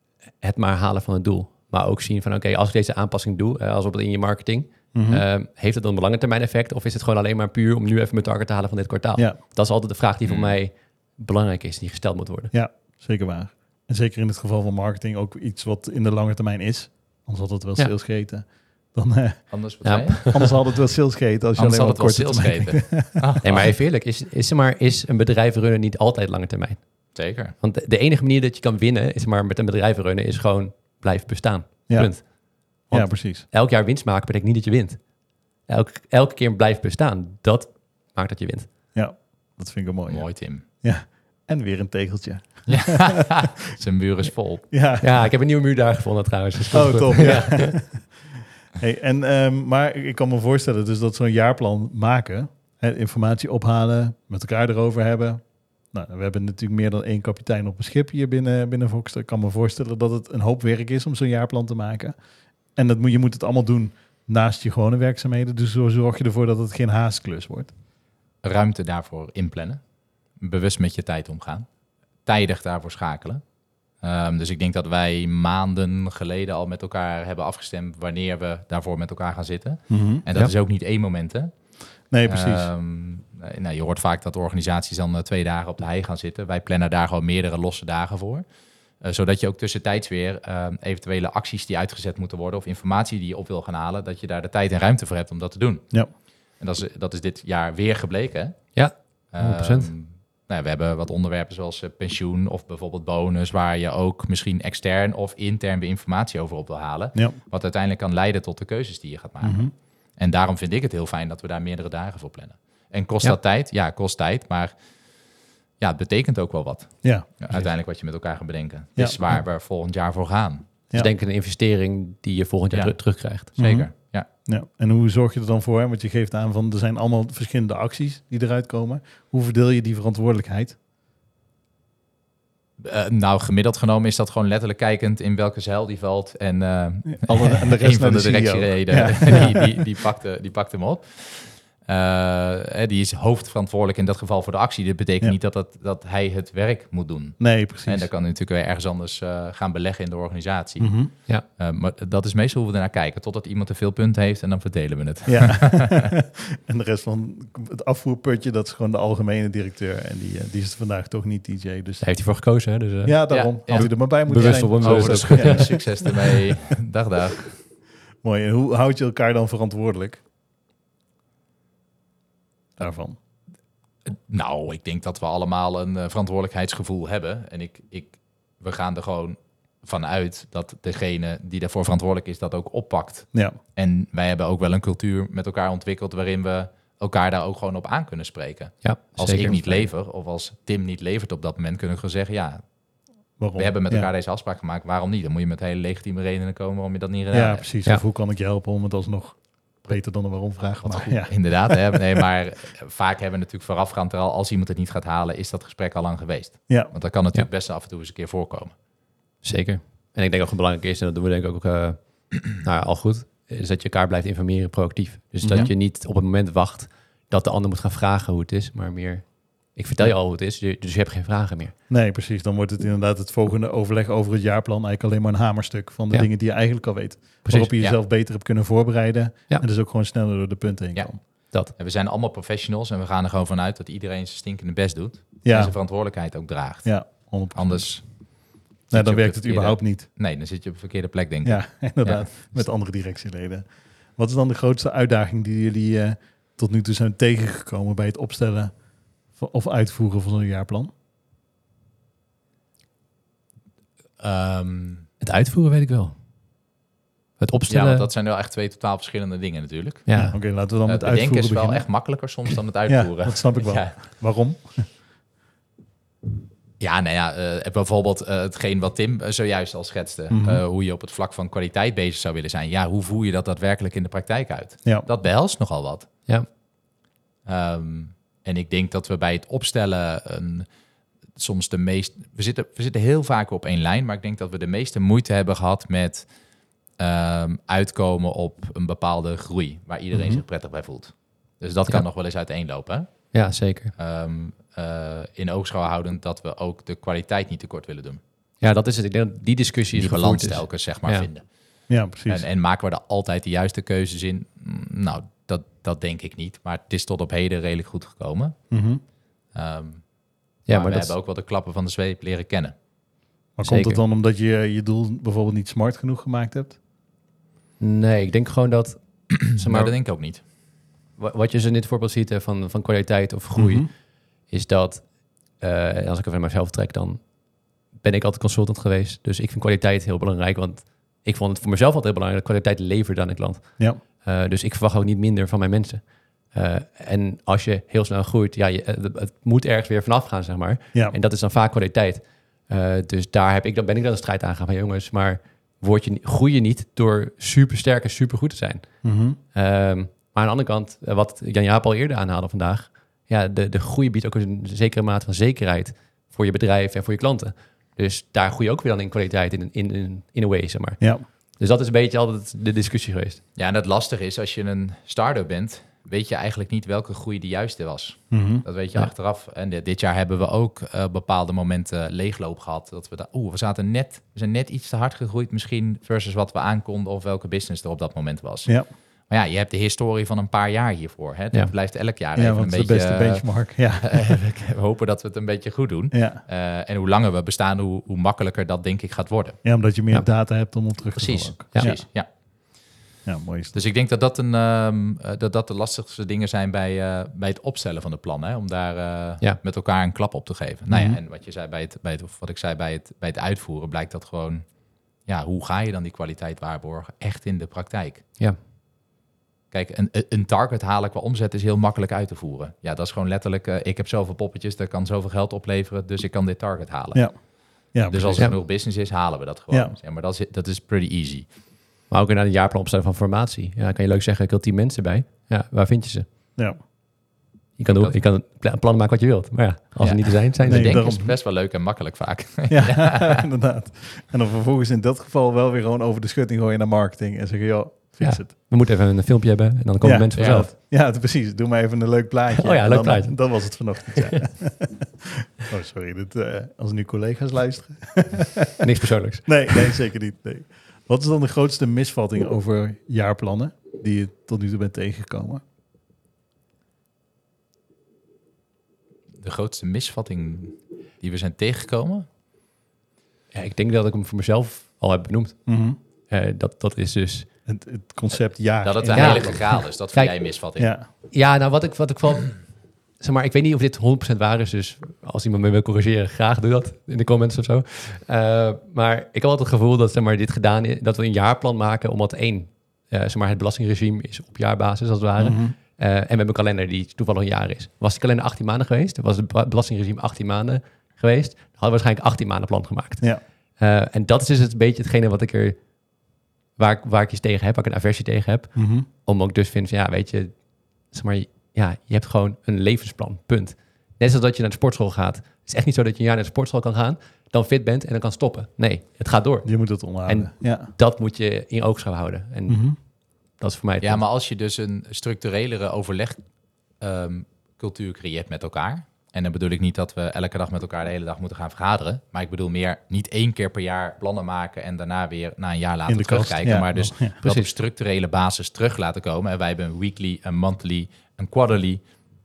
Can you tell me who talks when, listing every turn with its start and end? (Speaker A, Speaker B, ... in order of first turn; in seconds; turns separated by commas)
Speaker A: 0.4-12.5, Speaker B: 4.9-5.2, Speaker C: 10.2-10.6, Speaker B: 12.5-19.6, Speaker C: 19.5-20.5, Speaker A: 19.8-20.6, Speaker B: 20.2-23.3, Speaker C: 21.6-23.7, Speaker A: 23.4-35.1, Speaker C: 27.1-27.5, Speaker B: 31.9-32.3, Speaker B: 32.9-33.5, Speaker A: 35.6-38.7, Speaker B: 38.9-43.4, Speaker C: 40.1-40.6, Speaker C: 42.7-44.7, Speaker B: 44.7-45.0, Speaker A: 45.0-47.8, Speaker B: 46.7-62.2, Speaker B: 62.7-67.7, Speaker C: 68.4-69.8, Speaker C: 70.3-71.7, Speaker C: 72.2-88.5, Speaker B: 79.9-80.2, Speaker B: 82.1-82.7, Speaker C: 89.0-98.8, Speaker A: 98.7-99.9, Speaker C: 99.3-114.8, Speaker B: 109.4-109.7, Speaker C: 115.8-120.7, Speaker B: 117.0-117.4, Speaker B: 119.0-119.4, Speaker A: 120.9-123.5, Speaker C: 122.7-124.3, Speaker B: 123.5-130.8, Speaker C: 132.8-156.1, Speaker B: 137.1-139.7, Speaker B: 147.4-148.1, Speaker B: 150.8-151.1, Speaker B: 155.2-162.1, Speaker A: 162.0-166.0, Speaker B: 163.0-166.4, Speaker C: 163.3-167.6, Speaker B: 168.2-170.2, Speaker B: 172.8-173.2, Speaker C: 174.1-192.7, Speaker A: 188.8-189.9, Speaker B: 193.4-194.1, Speaker C: 193.5-197.7, Speaker B: 197.3-202.0, Speaker C: 200.8-208.7, Speaker B: 206.7-206.9, Speaker A: 209.4-221.7, Speaker B: 215.4-215.7, Speaker B: 221.9-231.2, Speaker A: 227.4-227.7, Speaker C: 230.9-242.7, Speaker B: 235.4-235.8, Speaker B: 236.8-238.2, Speaker B: 238.9-240.1, Speaker B: 241.4-250.9, Speaker C: 254.2-255.1, Speaker A: 255.2-256.1, Speaker A: 257.4-258.1, Speaker C: 257.7-263.9, Speaker A: 260.1-260.3, Speaker B: 260.1-261.9, Speaker B: 262.4-265.0, Speaker C: 266.8-276.1, Speaker B: 270.3-270.6, Speaker C: 277.4-280.7, Speaker C: 281.3-293.3, Speaker B: 290.1-290.4, Speaker A: 293.3-293.9, Speaker C: 293.9-298.2, Speaker A: 298.6-301.3, Speaker C: 299.9-308.7, Speaker B: 301.9-302.4, Speaker B: 308.7-309.0, Speaker C: 309.5-310.1, Speaker C: 310.6-312.7, Speaker A: 310.7-311.1, Speaker B: 313.6-316.8, Speaker A: 313.6-314.0, Speaker A: 317.8-319.9, Speaker C: 319.4-320.4, Speaker A: 321.2-327.4, Speaker B: 323.5-323.9, Speaker A: 327.9-363.4, Speaker B: 349.0-349.4, Speaker C: 363.5-389.6, Speaker B: 368.3-368.6, Speaker B: 382.3-384.4, Speaker B: 386.1-386.4, Speaker B: 389.6-392.0, Speaker C: 391.1-392.3, Speaker B: 393.2-393.8, Speaker C: 393.7-404.7, Speaker B: 400.9-401.2, Speaker C: 405.2-408.2, Speaker C: 409.7-421.5, Speaker B: 417.1-418.6, Speaker B: 419.7-419.9, Speaker A: 422.1-426.3, Speaker A: 427.8-431.1, Speaker C: 430.0-433.4, Speaker B: 430.6-431.3, Speaker B: 432.7-438.5, Speaker A: 438.2-440.7, Speaker B: 440.0-448.7, Speaker C: 440.3-440.7, Speaker A: 442.6-444.3, Speaker A: 448.8-449.9, Speaker B: 449.4-455.6, Speaker C: 459.4-462.3, Speaker A: 463.5-467.5, Speaker B: 465.6-466.0, Speaker B: 467.6-469.8, Speaker C: 468.8-470.9, Speaker A: 469.1-470.4, Speaker B: 470.8-471.1, Speaker A: 471.1-495.8, Speaker B: 485.4-485.8, Speaker A: 496.8-514.2, Speaker B: 498.7-499.1, Speaker B: 509.6-510.9, Speaker B: 512.7-513.0, Speaker C: 514.0-516.5, Speaker C: 517.0-532.1, Speaker B: 526.1-527.4, Speaker A: 527.4-527.7